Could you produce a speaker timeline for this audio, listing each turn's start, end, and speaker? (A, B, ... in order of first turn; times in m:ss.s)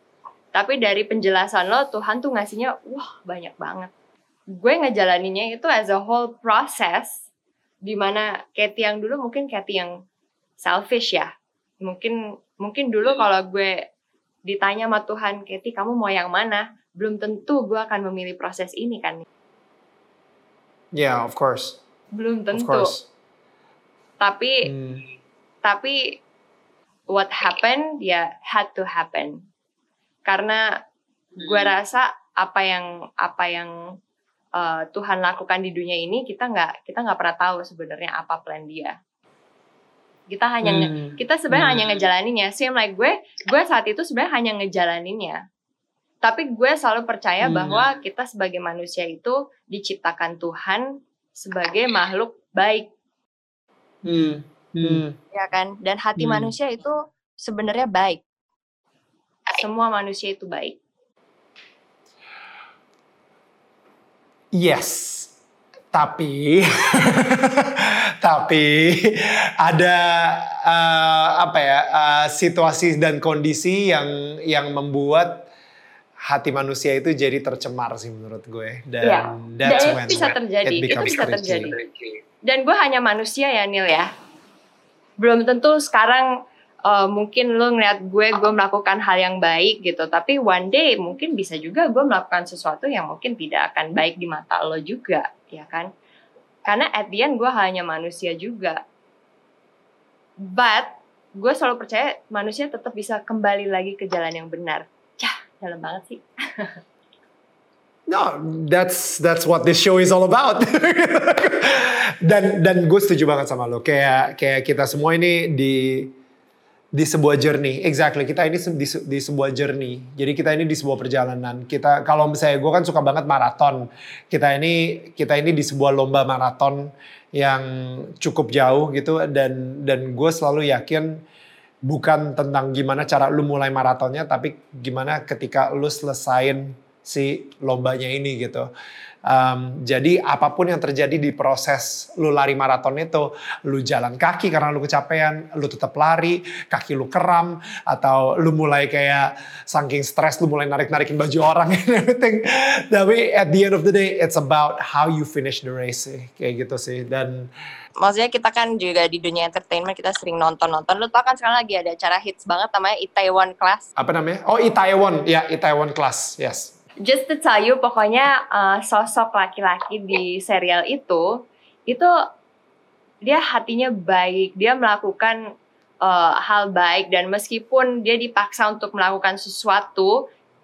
0:00.5-0:03.9 A
0:04.6-0:07.2 A
0:07.9-0:09.9 A
0:10.6-0:11.3 A
0:11.8-0:13.8 A
0:14.5-0:19.2 A
0:20.9-0:21.8 B
0:22.2-0:23.0 A
0:22.5-0:23.1 B
0:24.2-0:24.7 A
0:24.6-0:25.1 B
0:25.6-0:26.0 A
0:27.1-0:29.4 A
0:30.3-0:30.7 A
0:31.4-0:33.7 A
0:34.6-0:39.0 A
0:40.3-0:45.4 A
0:40.6-0:41.9 B
0:46.2-0:52.9 A
0:47.4-0:47.8 B
0:54.1-0:55.2 B
0:55.3-0:58.2 A
0:56.2-0:56.5 B
0:59.6-1:00.8 A
1:04.5-1:05.3 B
1:05.9-1:15.5 B
1:16.3-1:21.8 B
1:19.0-1:21.8 A
1:22.4-1:24.1 A
1:25.2-1:26.3 A
1:26.9-1:35.9 A
1:36.7-1:38.8 A
1:40.4-1:46.8 A
1:48.1-1:56.1 B
1:56.9-2:11.2 B
2:11.9-2:18.7 B
2:19.3-2:37.5 B
2:38.0-2:43.9 A
2:44.0-2:46.7 B
2:47.0-2:51.3 A
2:53.3-2:55.4 A
2:56.0-3:00.2 A